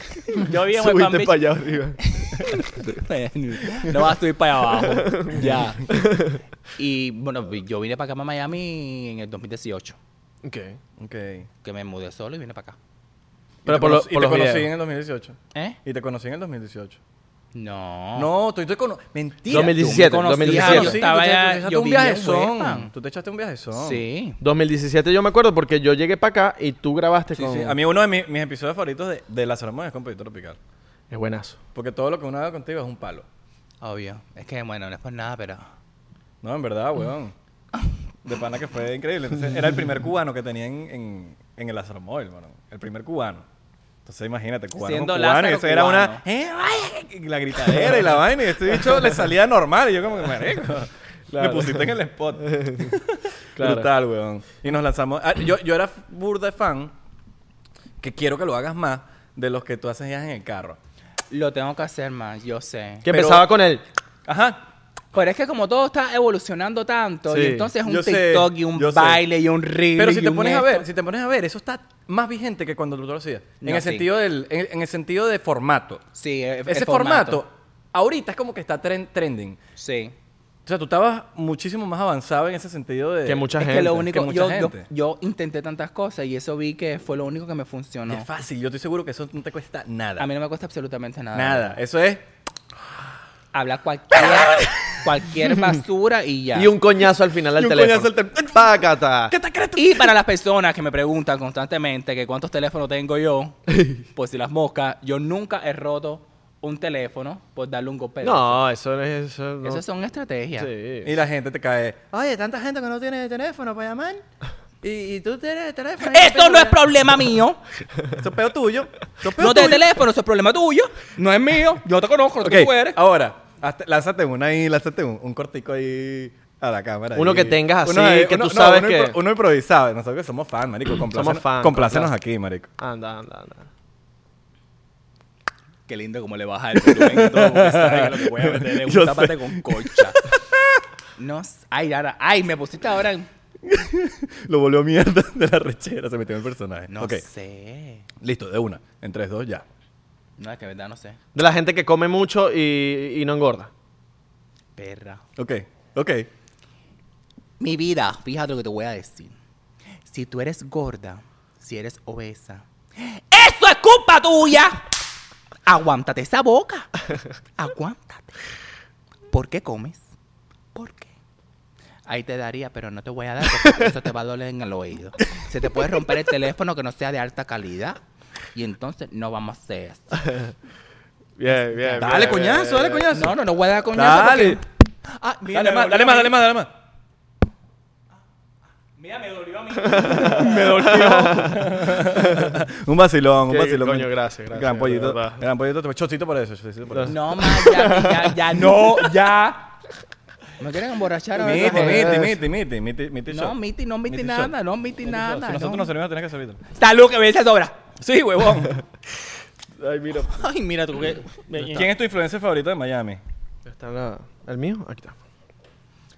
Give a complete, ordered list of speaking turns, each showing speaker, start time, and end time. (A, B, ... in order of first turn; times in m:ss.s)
0:00.4-0:01.5 A
0:00.5-0:02.0 B
0:02.1-0:05.8 A
0:05.0-0:06.4 B
0:06.8-0:10.0 A
0:10.4-0:10.8 B
0:11.0-0:11.5 C
0:11.6-0:12.8 A
0:13.6-0:14.7 B
0:13.6-0:17.0 C
0:17.5-0:18.3 A
0:18.2-0:24.0 C
0:19.5-0:21.0 B
0:19.5-0:22.9 A
0:23.7-0:24.4 A
0:24.4-0:27.8 B
0:27.4-0:30.6 C
0:31.1-0:31.6 B
0:31.8-0:33.3 C
0:33.8-0:35.7 A
0:36.4-0:37.3 C
0:38.2-0:43.4 C
0:44.1-0:56.9 C
0:44.8-0:46.2 A
0:51.3-0:51.9 B
0:52.5-0:52.9 B
0:53.6-0:53.9 B
0:58.0-1:00.8 C
1:01.3-1:03.1 A
1:03.0-1:03.8 B
1:03.1-1:03.5 C
1:04.3-1:04.6 C
1:05.1-1:10.8 A
1:07.3-1:07.7 B
1:07.8-1:09.2 C
1:10.0-1:16.0 C
1:13.6-1:14.1 A
1:16.2-1:17.4 A
1:16.7-1:19.6 C
1:19.8-1:20.2 A
1:20.7-1:24.9 C
1:23.2-1:24.1 B
1:23.6-1:28.3 A
1:28.1-1:30.3 C
1:30.2-1:31.8 A
1:31.3-1:32.2 C
1:33.5-1:36.7 A
1:34.2-1:35.0 C
1:36.6-1:39.3 B
1:37.6-1:40.1 C
1:39.8-1:43.6 A
1:43.7-1:44.0 B
1:44.2-1:48.6 A
1:48.2-1:49.8 B
1:49.6-1:50.7 A
1:50.6-1:51.2 B
1:51.0-1:54.2 C
1:54.8-1:56.9 C
1:56.0-1:57.6 A
1:58.2-1:59.8 C
1:59.4-2:03.0 A
2:02.4-2:12.7 C
2:07.2-2:09.2 B
2:11.1-2:12.1 B
2:12.8-2:13.7 B
2:15.9-2:20.2 A
2:16.8-2:20.4 C
2:21.2-2:23.3 A
2:23.6-2:27.2 C
2:26.9-2:28.0 A
2:28.2-2:29.6 C
2:30.4-2:31.2 A
2:31.4-2:33.7 B
2:34.8-2:35.2 A
2:35.4-2:36.3 C
2:37.6-2:39.4 A
2:40.1-2:44.8 A
2:45.7-2:46.9 A
2:47.6-2:48.3 A
2:49.3-2:50.1 A
2:50.8-2:51.1 A
2:52.1-2:58.0 A
2:58.5-3:00.2 A
3:00.2-3:00.5 B
3:01.4-3:03.1 B
3:01.5-3:02.4 A
3:02.0-3:03.4 C
3:03.1-3:06.4 A
3:03.9-3:04.6 C
3:05.5-3:06.7 C
3:09.0-3:11.3 A
3:09.8-3:12.6 B
3:10.3-3:17.2 C
3:13.5-3:15.4 B
3:16.9-3:19.0 B
3:17.1-3:19.7 A
3:20.6-3:22.2 A
3:21.4-3:23.6 C
3:21.4-3:22.4 B
3:23.3-3:25.9 A
3:24.1-3:24.5 C
3:25.0-3:26.6 C
3:26.8-3:27.8 A
3:28.0-3:28.8 C
3:29.8-3:30.4 B
3:30.4-3:31.9 A
3:31.6-3:31.8 B
3:31.7-3:33.2 C
3:33.7-3:35.2 B